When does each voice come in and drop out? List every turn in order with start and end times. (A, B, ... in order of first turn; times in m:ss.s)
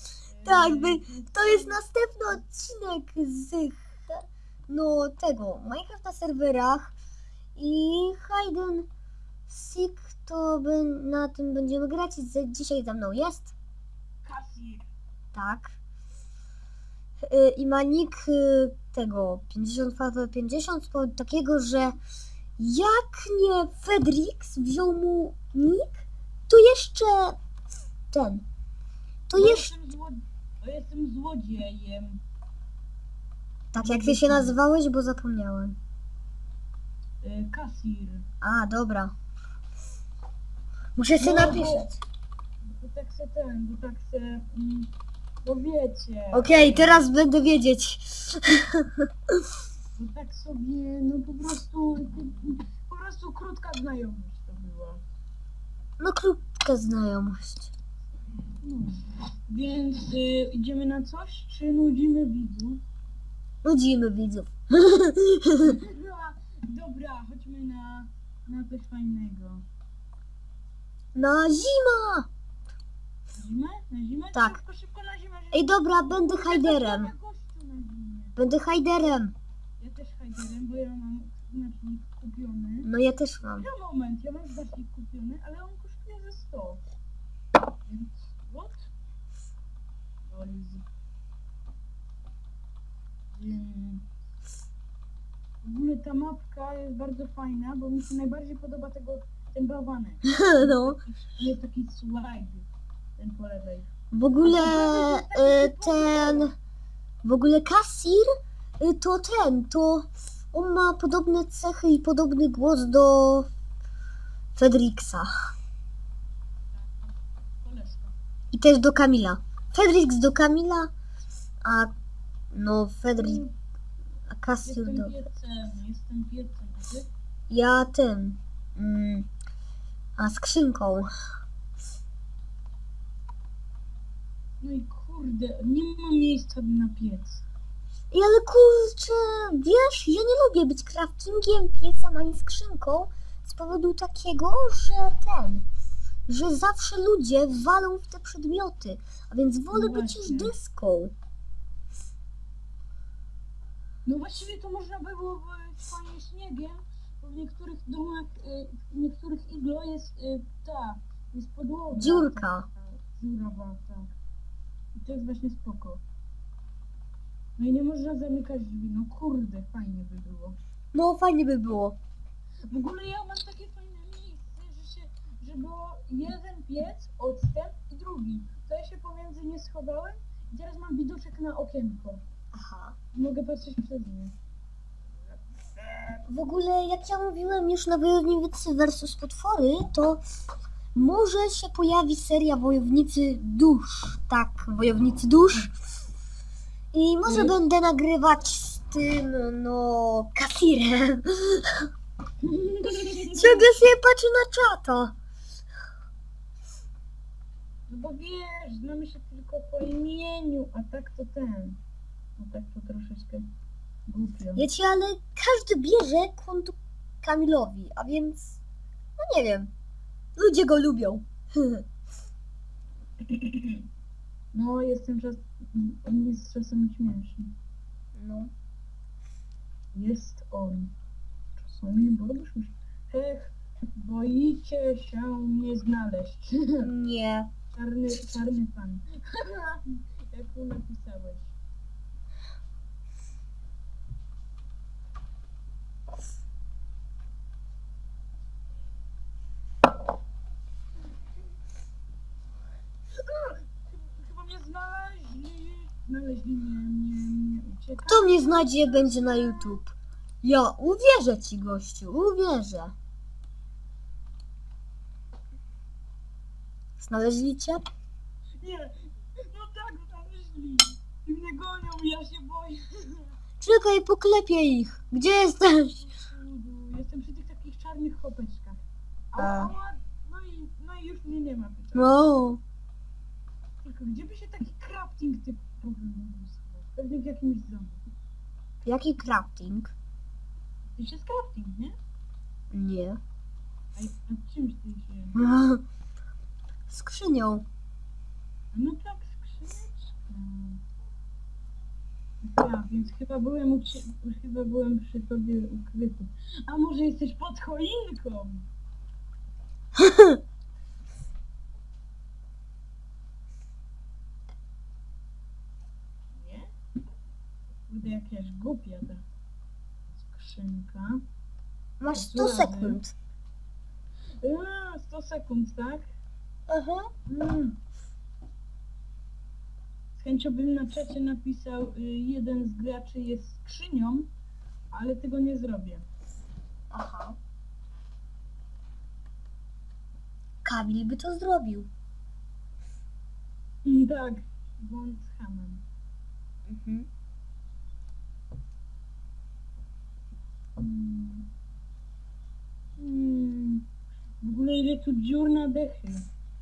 0:00.2-0:01.8 A
0:00.4-0:06.9 B
0:07.6-0:08.9 B
0:09.5-0:13.5 B
0:14.2-0:14.9 A
0:15.3-0:15.8 B
0:17.2-0:22.0 B
0:22.6-0:27.4 B
0:28.1-0:28.4 B
0:29.3-0:29.7 B
0:29.3-0:32.2 A
0:33.7-0:35.8 B
0:33.8-0:34.6 A
0:37.2-0:38.3 A
0:38.4-0:39.1 B
0:41.0-0:42.0 B
0:41.2-0:41.9 A
0:42.6-0:44.9 A
0:45.4-0:47.1 A
0:46.3-0:49.4 B
0:50.0-0:55.0 A
0:56.0-0:57.7 B
0:58.6-1:02.8 A
1:03.6-1:05.8 B
1:05.6-1:09.6 A
1:11.2-1:12.3 B
1:13.3-1:18.4 A
1:14.4-1:14.6 B
1:15.5-1:17.1 B
1:18.4-1:19.4 B
1:19.8-1:22.9 A
1:22.8-1:23.7 B
1:23.5-1:26.8 A
1:27.9-1:28.9 A
1:30.3-1:30.8 A
1:33.3-1:34.1 A
1:35.6-1:42.7 A
1:40.3-1:41.0 B
1:43.2-1:43.9 A
1:44.1-1:46.6 B
1:44.4-1:46.5 A
1:47.2-1:53.5 B
1:54.6-1:55.3 B
1:56.7-1:58.2 A
1:58.5-2:00.9 B
2:01.6-2:01.9 B
2:02.5-2:03.4 B
2:03.2-2:03.5 A
2:04.3-2:05.1 B
2:04.6-2:07.1 A
2:07.5-2:09.3 B
2:10.2-2:11.1 B
2:14.6-2:17.4 A
2:18.1-2:25.6 B
2:26.3-2:31.1 B
2:29.7-2:30.5 A
2:34.1-2:44.2 A
2:41.9-2:42.7 B
2:45.0-2:46.0 A
2:47.6-2:50.6 A
2:50.9-2:52.0 B
2:52.7-3:02.2 A
3:02.5-3:03.0 B
3:03.1-3:04.4 A
3:05.9-3:06.2 A
3:06.3-3:10.2 B
3:11.0-3:15.7 B
3:16.9-3:21.9 B
3:17.2-3:17.6 A
3:22.4-3:23.7 A
3:23.3-3:25.2 B
3:27.9-3:31.8 A
3:32.4-3:33.5 A
3:34.1-3:34.7 A
3:34.6-3:38.6 B
3:39.2-3:39.7 B
3:40.4-3:41.8 B
3:43.2-3:43.9 A
3:44.5-3:47.5 A
3:48.2-3:48.5 B
3:49.9-3:50.9 A
3:51.6-3:56.9 A
3:56.8-3:57.5 B
3:57.7-4:01.6 A
4:13.2-4:19.8 A
4:18.1-4:23.0 B
4:27.0-4:27.9 B
4:28.6-4:33.3 A
4:33.6-4:36.0 B
4:36.0-4:42.2 A
4:39.4-4:39.7 B
4:42.0-4:42.6 B
4:43.8-4:48.0 A
4:48.8-4:49.9 B
4:51.0-4:52.0 A
4:52.7-4:53.2 B
4:54.0-4:55.4 A
4:55.4-4:55.8 B
4:56.9-4:57.7 B
4:58.7-5:00.8 A
5:02.4-5:08.7 A
5:10.0-5:10.4 B
5:16.3-5:16.7 A
5:17.9-5:19.2 A
5:20.2-5:21.2 A
5:22.0-5:23.1 B
5:22.1-5:23.0 A
5:24.4-5:26.1 A
5:26.7-5:27.1 B
5:27.3-5:27.8 A
5:30.2-5:34.3 A
5:34.9-5:36.1 A
5:36.9-5:37.4 B
5:40.6-5:41.9 B
5:43.8-5:45.8 A
5:46.7-5:47.1 B
5:50.8-5:51.5 A
5:53.0-5:53.8 A
5:54.4-5:56.3 A